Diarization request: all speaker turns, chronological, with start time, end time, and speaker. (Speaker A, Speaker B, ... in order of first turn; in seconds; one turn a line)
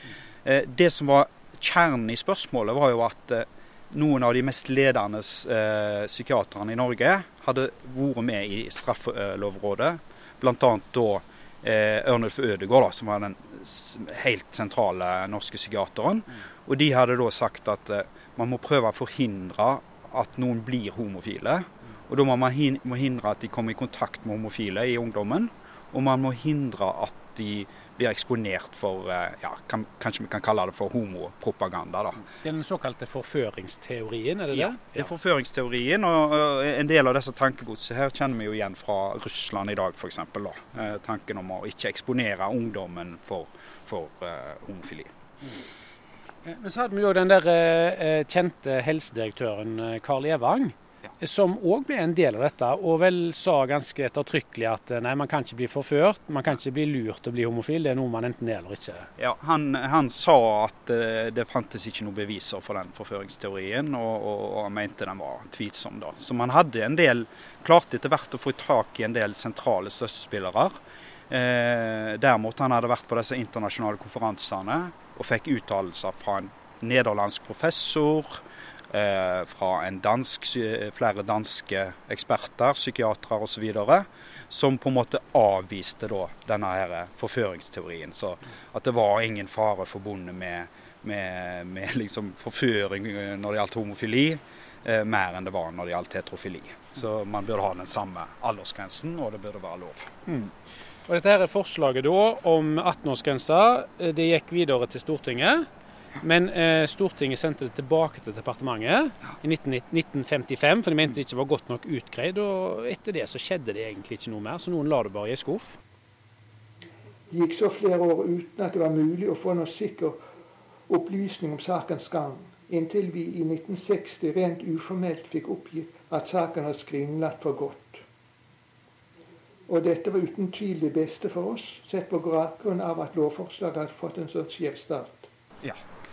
Speaker A: 0.4-32.2
Speaker B: 32.2-35.1
Speaker A: 34.5-45.1
Speaker B: 46.4-59.1
Speaker A: 59.2-70.8
Speaker A: 71.3-100.2
Speaker B: 100.2-100.5
Speaker B: 101.1-105.7
Speaker B: 106.2-115.8
Speaker C: 117.3-120.2
Speaker C: 120.9-128.0
Speaker C: 129.7-135.3